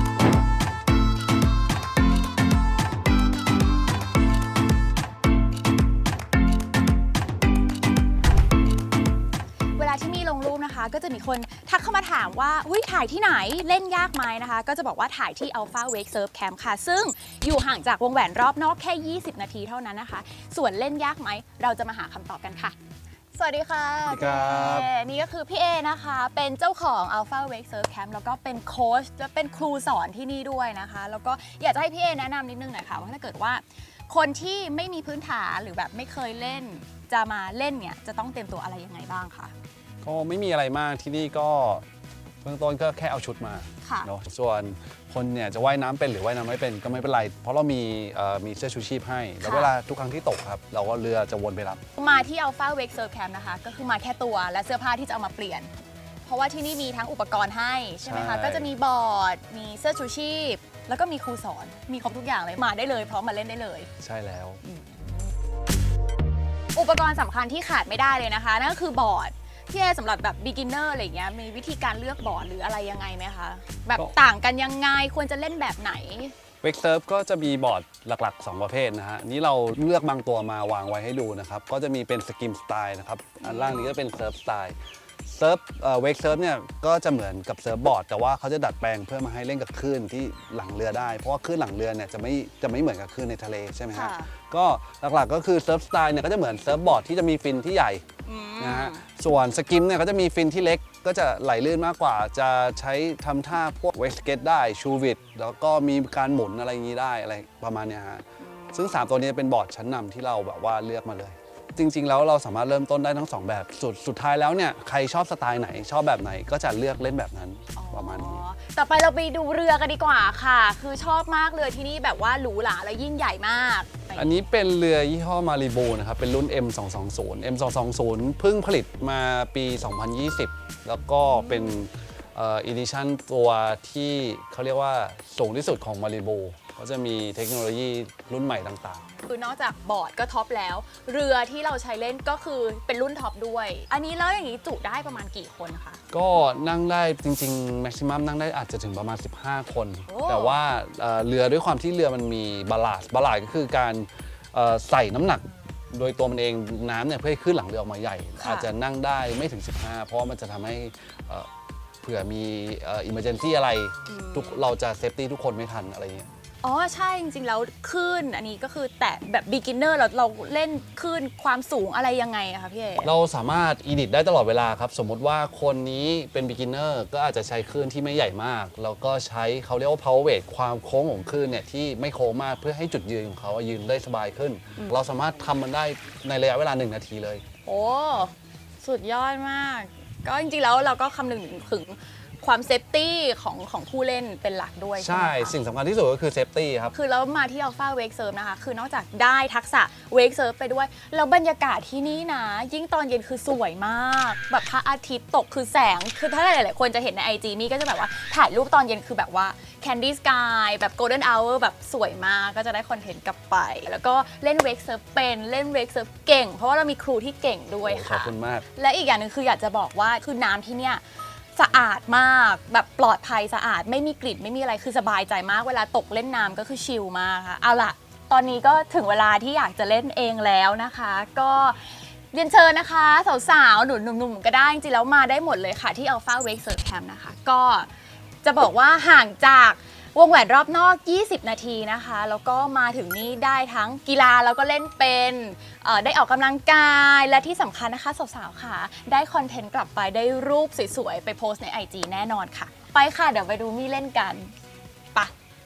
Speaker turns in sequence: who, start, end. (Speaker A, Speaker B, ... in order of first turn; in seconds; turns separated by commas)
Speaker A: 9.8-22.8, Speaker A: 23.4-39.5, Speaker B: 24.1-24.9, Speaker B: 40.0-41.9, Speaker B: 42.4-51.8, Speaker A: 43.8-44.1, Speaker A: 49.4-49.7, Speaker A: 52.0-55.7, Speaker A: 56.2-63.9, Speaker B: 58.0-58.7, Speaker B: 64.0-64.6, Speaker A: 64.7-65.2, Speaker A: 66.8-76.3, Speaker B: 76.6-98.0, Speaker A: 83.4-84.0, Speaker A: 93.9-94.3, Speaker A: 98.2-99.0, Speaker B: 98.6-118.4, Speaker A: 108.4-109.1, Speaker A: 117.8-124.5, Speaker B: 124.2-139.1, Speaker A: 131.2-131.8, Speaker A: 139.2-146.0, Speaker B: 146.1-161.5, Speaker A: 150.1-150.6, Speaker A: 158.4-158.7, Speaker B: 162.0-166.3, Speaker A: 164.1-164.7, Speaker A: 166.6-173.1, Speaker B: 173.0-187.4, Speaker A: 187.7-195.6, Speaker B: 195.0-196.9, Speaker A: 196.9-221.0, Speaker B: 217.8-218.7, Speaker A: 221.6-237.9, Speaker A: 238.4-254.5